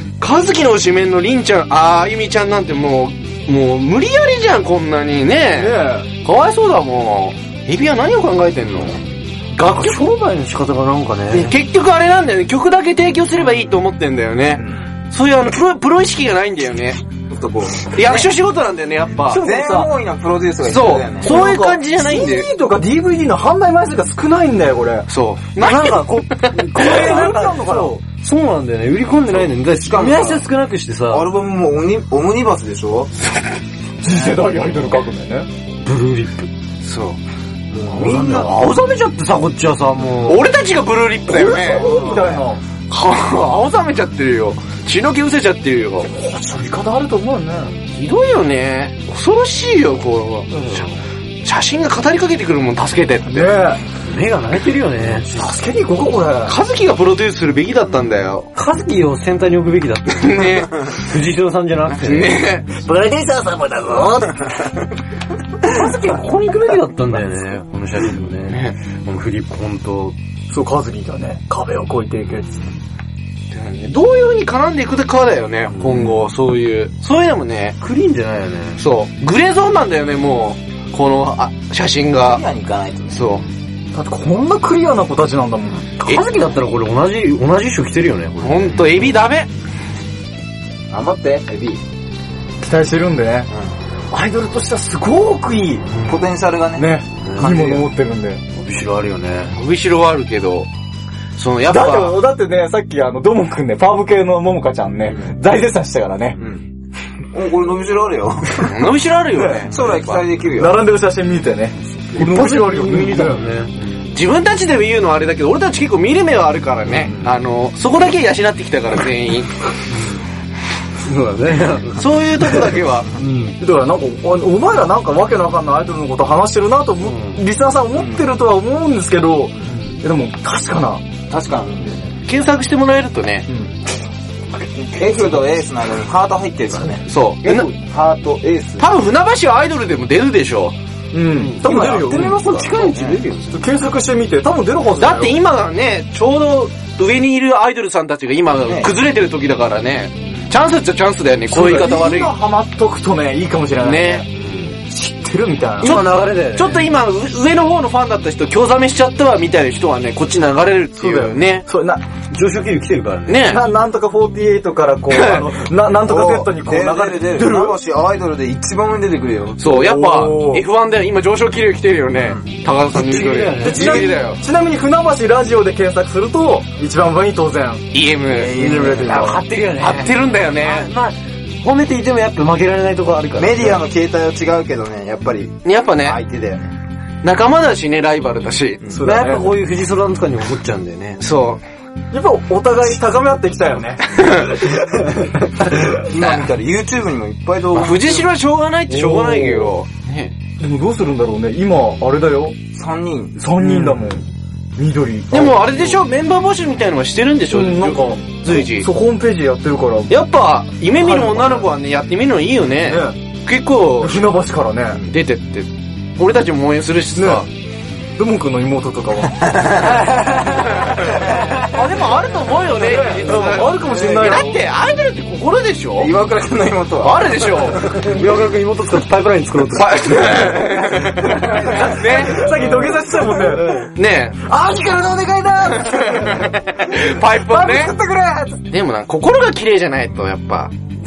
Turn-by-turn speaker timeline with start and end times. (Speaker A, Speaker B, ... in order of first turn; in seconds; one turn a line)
Speaker A: 0.2-10.0
Speaker B: 5.6-6.1
Speaker C: 9.6-11.6
Speaker A: 11.3-17.0
Speaker D: 17.3-18.2
Speaker A: 17.9-19.4
Speaker B: 19.2-19.9
Speaker D: 19.4-21.4
Speaker A: 20.6-22.5
Speaker B: 21.2-25.1
Speaker A: 25.1-26.7
Speaker C: 25.6-31.3
Speaker B: 26.7-28.0
Speaker D: 29.3-30.5
Speaker D: 31.1-33.1
Speaker B: 34.0-35.5
Speaker C: 35.8-36.5
Speaker A: 36.8-37.2
Speaker D: 37.7-38.5
Speaker C: 37.9-40.4
Speaker B: 38.0-38.5
Speaker A: 40.3-42.2
Speaker B: 41.3-42.6
Speaker A: 42.9-46.1
Speaker B: 46.0-47.7
Speaker A: 47.9-50.9
Speaker A: 51.4-53.7
Speaker B: 53.3-53.8
Speaker C: 54.0-55.3
Speaker B: 55.1-56.6
Speaker A: 56.5-58.5
Speaker C: 58.6-64.5
Speaker A: 60.2-60.9
Speaker A: 61.9-62.8
Speaker C: 65.6-70.2
Speaker B: 70.5-72.7
Speaker A: 73.5-77.8
Speaker C: 77.8-78.8
Speaker A: 78.8-82.4
Speaker D: 82.2-83.4
Speaker A: 83.1-83.5
Speaker B: 83.9-85.9
Speaker C: 86.0-89.1
Speaker A: 88.4-89.5
Speaker D: 90.9-91.8
Speaker B: 92.6-93.5
Speaker B: 94.1-95.9
Speaker C: 95.9-96.3
Speaker D: 96.1-97.9
Speaker B: 96.8-98.4
Speaker C: 97.2-97.6
Speaker C: 98.5-99.6
Speaker A: 99.5-100.7
Speaker A: 101.4-102.2
Speaker B: 101.7-106.4
Speaker D: 105.0-105.3
Speaker D: 106.4-106.7
Speaker D: 107.3-108.8
Speaker A: 108.6-110.2
Speaker B: 109.3-109.7
Speaker D: 109.7-110.8
Speaker B: 110.5-113.5
Speaker C: 112.1-114.1
Speaker A: 114.1-119.6
Speaker C: 116.9-117.3
Speaker C: 119.9-120.2
Speaker C: 121.0-122.5
Speaker A: 122.0-123.1
Speaker C: 123.1-123.6
Speaker B: 123.6-131.1
Speaker C: 127.0-127.4
Speaker D: 128.0-128.3
Speaker D: 131.3-132.2
Speaker A: 132.3-133.5
Speaker B: 133.5-133.8
Speaker D: 134.8-138.9
Speaker A: 137.1-137.7
Speaker A: 138.8-140.8
Speaker B: 141.1-142.4
Speaker C: 141.4-143.6
Speaker D: 141.6-143.2
Speaker B: 143.5-145.4
Speaker A: 145.0-152.3
Speaker D: 148.7-148.9
Speaker B: 151.5-154.3
Speaker A: 153.8-154.2
Speaker C: 154.3-154.8
Speaker B: 154.9-155.9
Speaker C: 155.8-156.9
Speaker A: 155.8-161.7
Speaker B: 161.0-162.0
Speaker C: 162.3-163.4
Speaker A: 163.3-163.7
Speaker B: 163.4-167.7
Speaker A: 165.1-165.5
Speaker D: 165.9-170.0
Speaker A: 167.4-167.7
Speaker A: 169.6-174.4
Speaker B: 169.7-170.7
Speaker D: 172.2-172.4
Speaker C: 172.9-174.1
Speaker B: 173.6-177.9
Speaker A: 177.9-178.6
Speaker D: 178.3-179.4
Speaker C: 178.6-183.8
Speaker A: 179.8-180.9
Speaker D: 183.4-186.8
Speaker A: 185.7-186.2
Speaker A: 187.2-188.9
Speaker B: 188.9-189.6
Speaker C: 189.0-191.2
Speaker A: 191.2-191.6
Speaker B: 192.1-195.8
Speaker A: 194.2-194.5
Speaker D: 195.9-198.3
Speaker A: 196.2-196.5
Speaker A: 197.7-200.3
Speaker C: 199.0-199.7
Speaker B: 200.6-202.6
Speaker D: 202.7-203.4
Speaker B: 203.4-204.2
Speaker B: 204.8-206.0
Speaker A: 205.3-208.9
Speaker B: 207.5-210.2
Speaker A: 210.1-214.3
Speaker B: 210.9-211.7
Speaker B: 212.8-213.2
Speaker B: 214.0-215.1
Speaker A: 215.1-217.5
Speaker B: 217.2-217.4
Speaker B: 218.2-220.0
Speaker D: 219.4-219.7
Speaker C: 220.1-220.6
Speaker A: 220.7-226.2
Speaker B: 222.7-224.6
Speaker D: 226.0-228.1
Speaker A: 227.0-227.9
Speaker C: 227.9-230.6
Speaker A: 229.7-232.5
Speaker D: 231.2-231.9
Speaker B: 231.5-233.8
Speaker C: 232.6-233.9
Speaker A: 233.9-234.5
Speaker D: 234.4-236.5
Speaker A: 235.8-238.0
Speaker D: 237.4-238.6
Speaker A: 238.7-240.7